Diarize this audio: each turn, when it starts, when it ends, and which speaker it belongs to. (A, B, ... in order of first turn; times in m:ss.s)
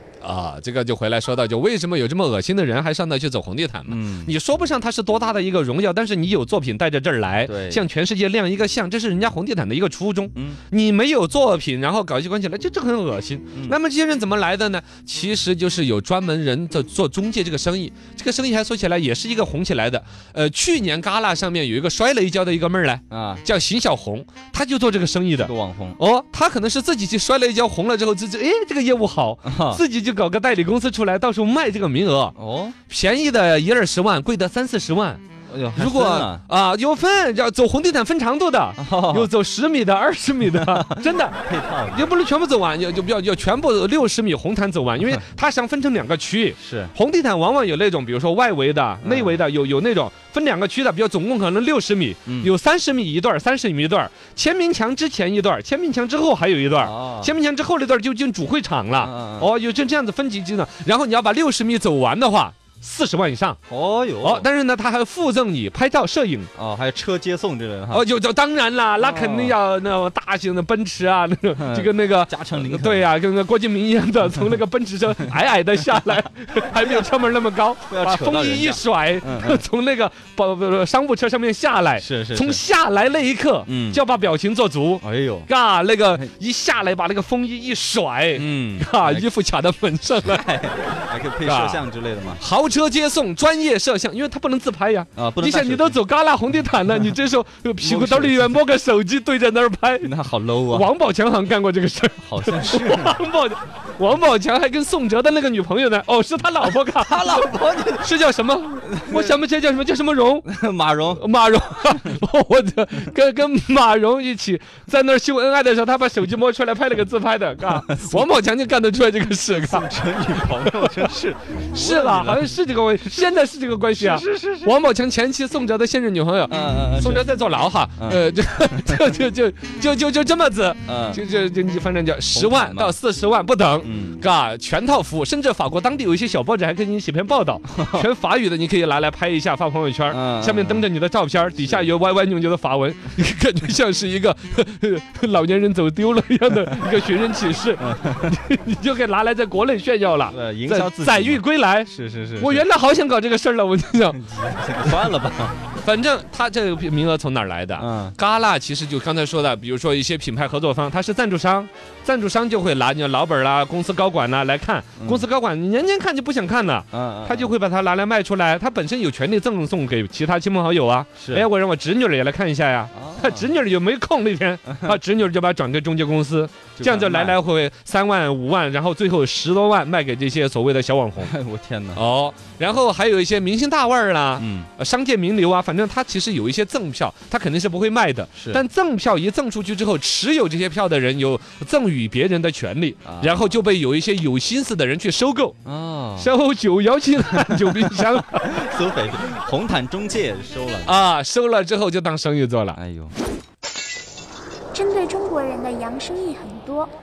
0:00.2-0:32.3 A
0:03.9-0:04.3 B
0:07.5-0:07.8 B
0:10.3-0:10.6 B
0:23.1-0:23.4 B
0:25.4-0:26.0 B
0:29.4-0:29.8 B
0:32.4-0:32.8 B
0:32.9-0:35.2 A
0:35.5-0:36.4 B
0:35.8-0:41.4 A
0:38.8-0:39.3 B
0:40.6-0:42.1 B
0:41.9-1:03.6 A
0:46.6-0:46.9 B
0:49.0-0:49.4 B
0:52.3-0:52.5 B
0:56.8-0:57.3 B
0:59.0-0:59.5 B
1:03.7-1:04.5 B
1:04.2-1:06.5 A
1:06.6-1:08.0 B
1:07.9-1:30.4 A
1:09.0-1:09.6 B
1:11.6-1:13.1 B
1:16.8-1:17.0 B
1:17.9-1:19.6 B
1:22.0-1:22.6 B
1:23.7-1:24.0 B
1:25.0-1:25.5 B
1:28.3-1:29.3 B
1:30.2-1:32.4 B
1:31.4-1:31.8 A
1:32.4-1:40.1 A
1:35.2-1:36.0 B
1:37.8-1:38.5 B
1:40.0-1:40.9 B
1:40.7-1:50.5 A
1:42.3-1:43.2 B
1:47.0-1:48.1 B
1:49.0-1:49.3 B
1:50.5-1:51.2 B
1:51.2-2:01.1 A
1:59.6-2:02.6 B
2:01.7-2:34.2 A
2:04.0-2:04.8 B
2:06.5-2:07.3 B
2:08.0-2:09.0 B
2:10.8-2:11.2 B
2:12.3-2:13.0 B
2:13.8-2:14.2 B
2:17.7-2:18.0 B
2:20.1-2:20.8 B
2:27.8-2:28.3 B
2:30.3-2:32.6 B
2:34.2-2:35.6 B
2:35.7-3:01.3 A
2:37.8-2:38.2 B
2:45.0-2:45.2 B
2:46.9-2:47.5 B
2:51.2-2:51.5 B
2:52.9-2:53.5 B
2:54.7-2:55.0 B
2:56.8-2:57.4 B
3:01.2-3:02.0 B
3:02.0-3:15.6 A
3:04.4-3:04.7 B
3:08.4-3:08.6 B
3:13.0-3:13.6 B
3:15.6-3:16.3 B
3:16.2-3:18.6 A
3:18.4-3:21.0 B
3:20.8-3:22.8 A
3:22.8-3:23.2 B
3:24.7-3:26.9 C